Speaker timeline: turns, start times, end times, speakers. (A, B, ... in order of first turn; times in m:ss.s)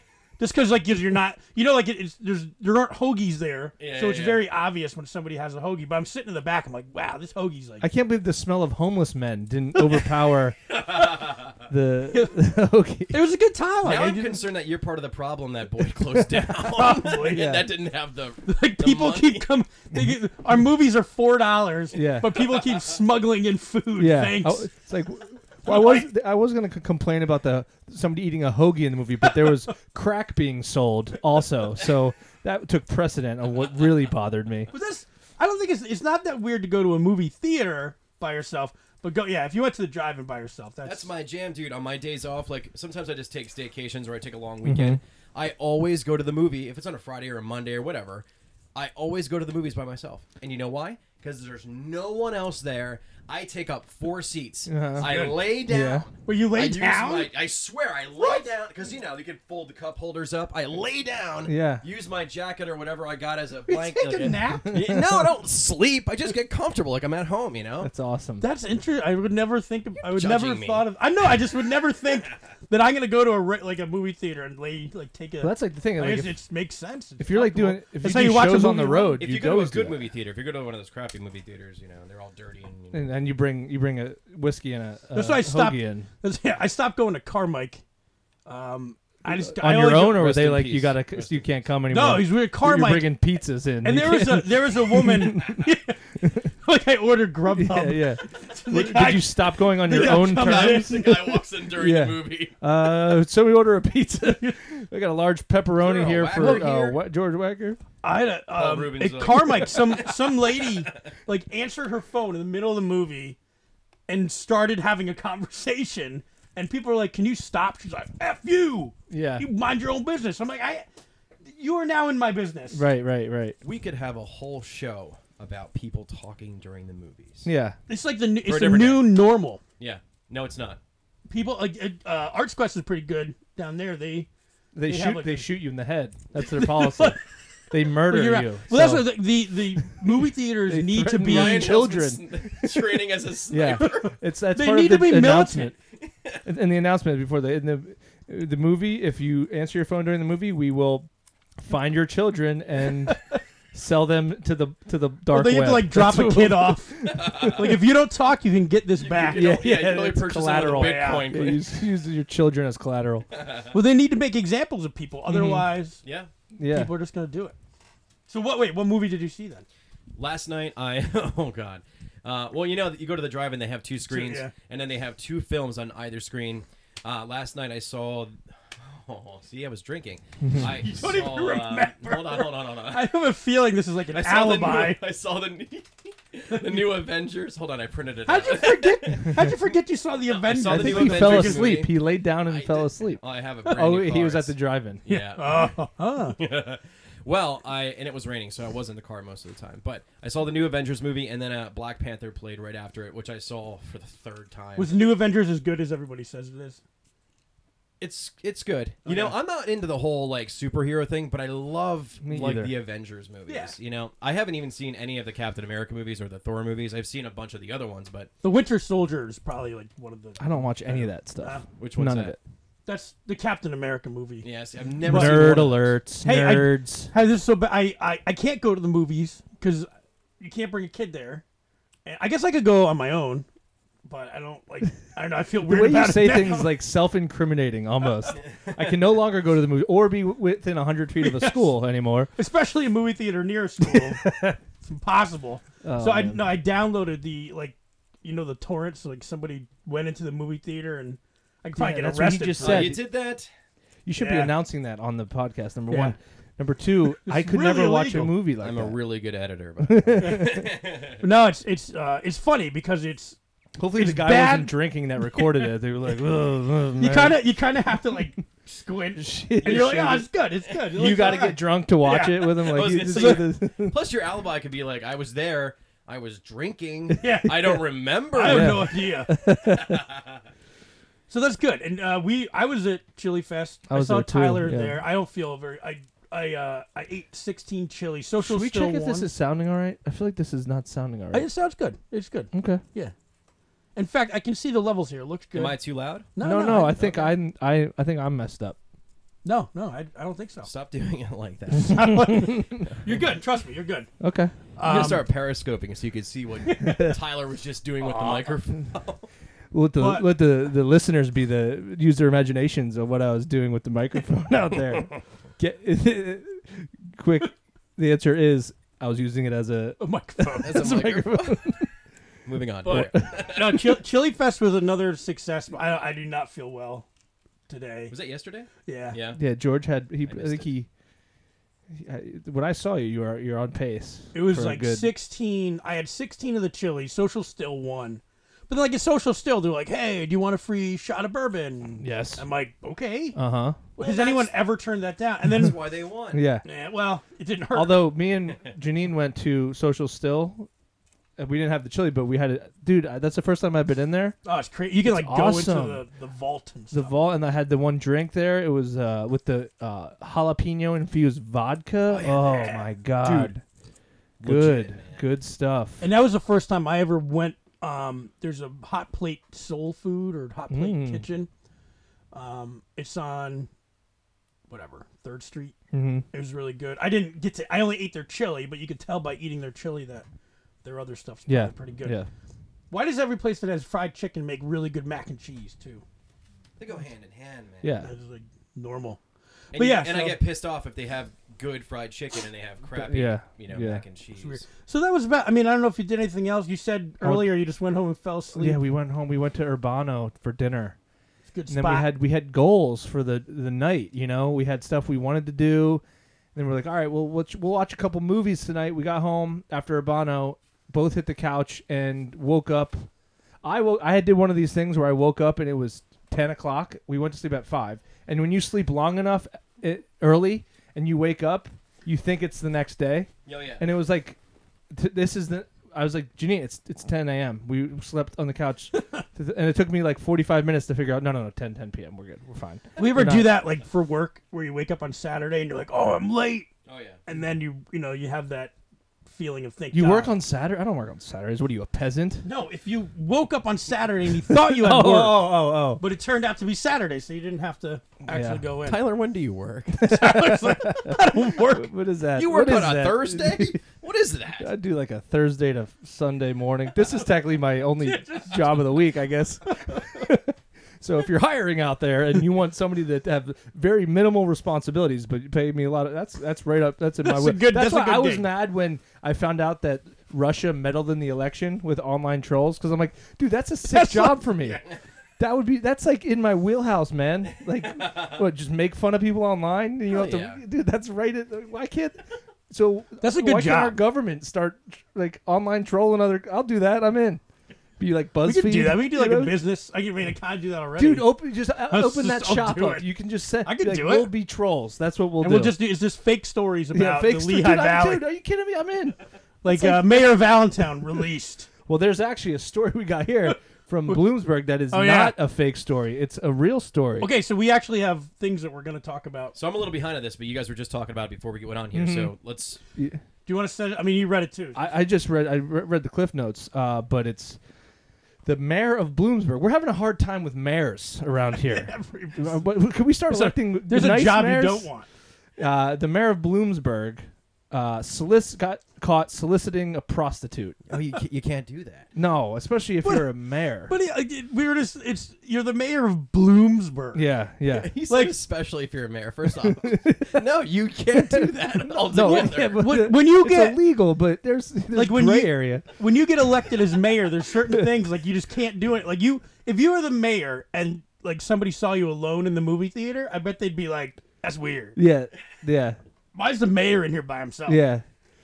0:00.4-0:07.9 A
0:03.8-0:04.4 B
0:07.8-0:10.6 C
0:10.8-0:11.5 B
0:11.7-0:13.2 C
0:13.1-0:14.4 A
0:13.8-0:19.4 B
0:15.9-0:17.7 C
0:16.7-0:17.5 A
0:18.4-0:24.7 A
0:21.9-0:22.4 C
0:24.0-0:34.7 C
0:25.6-0:26.0 A
0:34.7-0:41.1 A
0:40.8-1:07.9 B
0:44.6-0:45.0 C
0:54.7-0:56.1 C
0:55.0-0:55.4 A
0:56.2-0:57.3 A
0:58.2-0:58.4 A
1:01.4-1:01.8 C
1:03.7-1:04.8 A
1:04.7-1:05.1 C
1:07.8-1:08.4 C
1:08.4-1:19.2 A
1:10.0-1:10.9 B
1:15.4-1:16.4 C
1:17.2-1:20.0 C
1:19.2-1:23.1 B
1:22.9-1:26.1 C
1:25.1-1:27.8 A
1:28.4-1:30.3 A
1:29.2-1:35.6 C
1:30.0-1:31.5 B
1:31.9-1:33.2 A
1:33.8-1:41.4 A
1:37.5-1:41.2 C
1:39.9-1:42.6 B
1:41.7-1:47.8 C
1:44.2-1:44.6 A
1:45.8-1:46.7 B
1:46.3-1:47.0 A
1:48.0-1:53.4 A
1:48.5-1:51.1 B
1:54.1-2:00.8 A
1:59.1-1:59.5 C
2:01.4-2:02.8 A
2:02.7-2:03.6 C
2:03.6-2:07.5 B
2:07.4-2:07.8 C
2:07.9-2:09.6 A
2:08.4-2:09.1 B
2:09.8-2:10.8 B
2:11.3-2:14.3 A
2:14.7-2:17.2 C
2:14.8-2:15.5 A
2:16.4-2:17.2 A
2:17.7-2:19.1 C
2:18.0-2:21.8 A
2:20.7-2:25.8 C
2:21.2-2:24.2 B
2:23.7-2:25.7 A
2:26.0-2:26.4 B
2:26.4-2:33.2 C
2:33.7-2:37.8 C
2:35.3-2:39.6 A
2:37.1-2:37.6 B
2:39.0-2:41.7 B
2:39.3-2:43.3 C
2:40.5-2:41.3 A
2:43.3-2:43.7 B
2:43.7-2:46.0 A
2:45.3-2:45.7 C
2:46.0-2:46.3 B
2:46.5-2:46.9 C
2:46.7-2:47.5 A
2:48.3-2:49.6 A
2:50.2-3:03.1 B
2:54.1-2:54.5 A
3:00.4-3:00.8 C
3:00.6-3:05.0 A
3:04.1-3:09.5 B
3:08.2-3:11.8 A
3:09.1-3:09.5 C
3:10.3-3:24.9 B
3:10.7-3:15.1 C
3:15.1-3:16.4 A
3:24.8-3:26.8 A
3:28.0-3:38.3 B
3:29.0-3:29.4 A
3:32.2-3:32.7 C
3:33.5-3:33.7 A
3:38.4-3:41.6 A
3:40.4-3:42.4 C
3:41.8-3:42.4 B
3:42.8-3:44.5 A
3:44.4-3:46.0 B
3:45.0-3:47.1 C
3:45.0-3:45.6 A
3:46.2-3:49.9 A
3:50.4-3:51.4 A
3:52.0-3:53.5 A
3:54.0-3:56.7 A
3:55.6-4:02.3 C
4:01.2-4:01.6 A
4:02.4-4:12.9 A
4:03.8-4:04.6 C
4:05.8-4:06.5 C
4:11.8-4:13.1 C
4:12.6-4:13.5 B
4:14.0-4:19.0 C
4:14.2-4:14.5 A
4:15.9-4:16.2 A
4:17.2-4:18.4 A
4:18.6-4:21.2 B
4:19.8-4:20.7 C
4:20.2-4:20.5 A
4:21.2-4:23.4 A
4:23.8-4:27.4 C
4:23.9-4:25.7 A
4:27.0-4:33.5 A
4:29.2-4:30.3 C
4:29.6-4:30.0 B
4:30.9-4:34.0 C
4:32.6-4:39.0 B
4:37.2-4:39.3 A
4:37.3-4:37.7 C
4:38.4-4:40.0 C
4:39.7-4:40.4 B
4:41.3-4:49.3 A
4:43.9-4:45.0 C
4:48.4-4:51.5 C
4:51.3-4:53.1 A
4:52.5-4:52.8 C
4:54.0-4:55.8 A
4:55.5-4:56.3 B
4:56.3-4:57.4 A
4:56.4-4:58.8 C
4:59.4-5:00.7 A
5:00.6-5:03.0 B
5:01.7-5:04.1 A
5:01.8-5:02.9 C
5:04.2-5:04.5 C
5:04.8-5:05.2 A
5:04.8-5:09.2 B
5:06.6-5:07.2 A
5:06.8-5:07.2 C
5:08.0-5:08.6 A
5:09.7-5:21.9 C
5:10.0-5:10.3 A
5:20.0-5:20.9 A
5:20.6-5:21.8 B
5:22.4-5:24.0 B
5:22.8-5:27.1 A
5:22.9-5:23.4 C
5:27.7-5:28.1 A
5:28.1-5:29.4 B
5:28.8-5:29.2 A
5:29.3-5:30.9 C
5:30.2-5:30.7 B
5:31.9-5:35.1 C
5:34.3-5:43.4 A
5:42.0-5:42.4 C
5:43.4-5:43.9 C
5:44.0-5:45.8 A
5:44.0-5:44.5 B
5:45.5-5:46.4 B
5:46.3-5:46.6 C
5:46.6-5:48.0 A
5:47.7-5:50.7 C
5:51.4-5:54.4 C
5:54.4-5:57.1 A
5:55.0-5:56.0 C
5:56.9-6:03.6 C
6:02.1-6:03.5 B
6:02.1-6:02.9 A
6:04.4-6:05.2 B
6:04.4-6:06.1 C
6:06.0-6:11.5 A
6:10.7-6:11.2 C
6:12.3-6:13.7 A
6:14.7-6:15.8 A
6:15.9-6:16.2 C
6:16.3-6:20.2 A
6:20.8-6:22.2 A
6:21.5-6:22.3 C
6:22.9-6:26.0 A
6:26.8-6:28.0 B
6:27.8-6:28.1 C
6:28.0-6:29.2 A
6:29.7-6:34.6 B
6:29.7-6:30.4 A
6:32.9-6:34.0 C
6:34.4-6:38.8 A
6:37.2-6:37.5 C
6:38.6-6:41.0 C
6:41.5-6:42.1 A
6:41.7-6:46.0 C
6:46.6-6:53.1 C
6:53.6-7:04.4 C
7:03.5-7:03.8 B
7:04.9-7:13.6 C
7:09.0-7:09.2 A
7:13.0-7:16.7 A
7:16.9-7:17.2 B
7:17.2-7:18.7 A
7:19.3-7:20.4 A
7:19.9-7:22.5 C
7:22.4-7:29.0 A
7:24.5-7:26.0 C
7:28.3-7:28.6 C
7:28.8-7:30.0 B
7:30.0-7:33.8 C
7:30.0-7:31.9 A
7:32.4-7:34.7 B
7:34.6-7:54.8 C
7:38.0-7:38.8 A
7:47.2-7:48.5 A
7:53.9-7:54.5 A
7:55.4-8:07.4 C
8:00.1-8:00.6 B
8:03.2-8:04.0 A
8:08.0-8:09.6 C
8:08.4-8:13.1 A
8:11.0-8:15.8 C
8:13.6-8:14.3 A
8:15.4-8:18.2 A
8:16.9-8:20.2 C
8:19.6-8:21.7 A
8:21.9-8:27.3 C
8:24.9-8:25.4 A
8:27.2-8:29.6 A
8:29.6-8:32.8 B
8:31.9-8:32.3 C
8:33.0-8:33.2 C
8:33.5-8:34.8 A
8:34.8-8:37.6 C
8:38.4-8:44.9 C
8:41.6-8:42.7 A
8:43.3-8:45.1 A
8:45.6-8:50.8 C
8:50.9-8:52.1 B
8:52.1-8:53.9 C
8:53.0-8:53.3 A
8:53.9-8:57.2 A
8:57.1-8:57.9 C
8:57.6-9:02.9 B
8:58.1-8:58.4 A
8:59.6-9:00.4 C
9:01.1-9:05.9 C
9:02.2-9:03.8 A
9:04.9-9:15.0 A
9:15.0-9:16.0 C
9:16.3-9:17.8 A
9:17.7-9:18.0 C